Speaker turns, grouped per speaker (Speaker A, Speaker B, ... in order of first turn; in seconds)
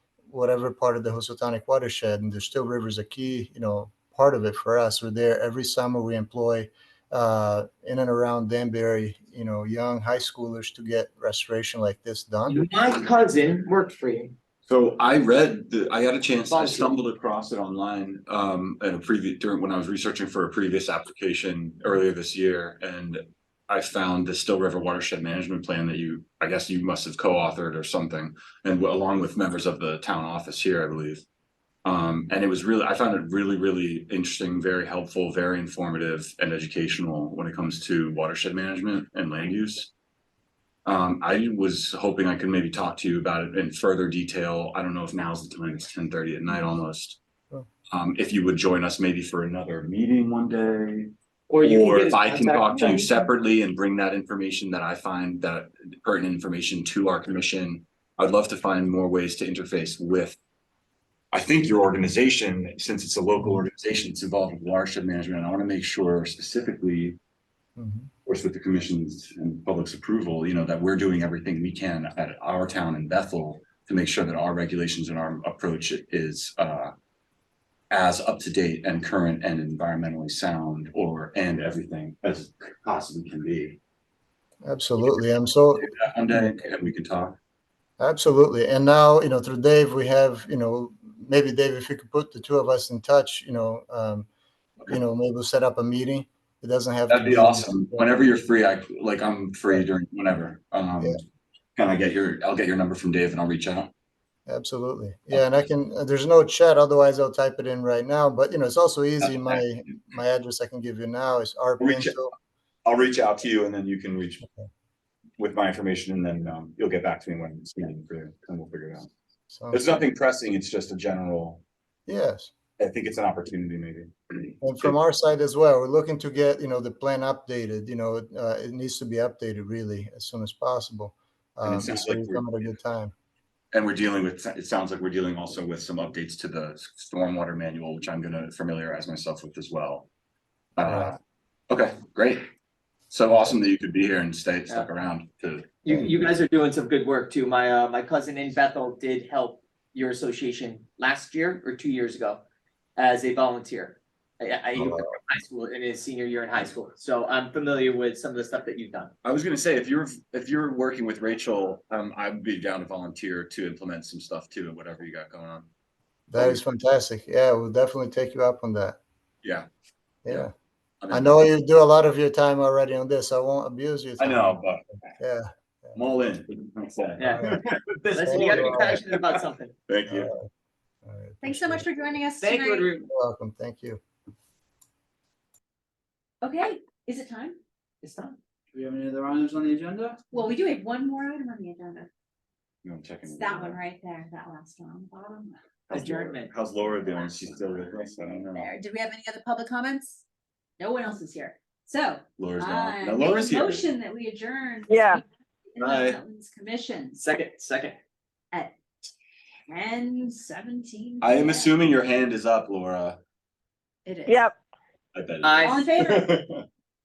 Speaker A: 0.3-12.6, 67.8-68.1, 84.7-86.5, 88.0-94.3, 94.9-98.3, 104.5-112.3, 119.5-120.1, 122.1-122.5, 124.6-133.1, 140.8-141.1, 154.8-155.1, 166.3-169.0, 170.2-170.5, 171.1-174.6, 175.2-176.0, 177.3-177.6, 178.2-179.0, 180.1-180.4, 181.1-181.9, 183.1-184.0
Speaker B: 12.5-14.3, 16.5-16.9, 51.5-53.2, 145.8-152.4, 153.0-159.1, 177.2-179.7, 182.4-183.1, 188.0-188.4, 195.9-196.5, 207.2-208.0, 215.4-215.8
Speaker C: 14.7-31.2, 31.9-39.9, 40.9-47.2, 47.9-60.4, 61.3-67.2, 68.3-76.9, 77.9-83.8, 85.8-87.4, 97.1-101.2, 101.8-103.9, 109.2-109.6, 111.8-112.2, 112.8-114.5, 115.4-119.1, 119.7-121.6, 122.8-124.9, 131.6-132.5, 133.7-140.1, 140.8-141.2, 141.7-142.5, 143.1-145.8, 159.2-165.7, 166.3-166.6, 171.0-171.5, 174.2-174.9, 175.9-177.8, 178.7-178.9, 179.9-180.3, 192.8-193.8, 195.9-198.7, 202.4-203.9, 205.8-206.2, 211.2-213.2, 215.1-216.7
Speaker D: 181.4-182.9, 186.4-187.6, 190.3-192.1, 193.3-195.6, 198.6-200.2, 200.8-207.2, 209.7-211.8, 214.1-214.5, 215.6-216.4
Speaker E: 188.7-190.2, 204.9-205.2, 214.3-214.6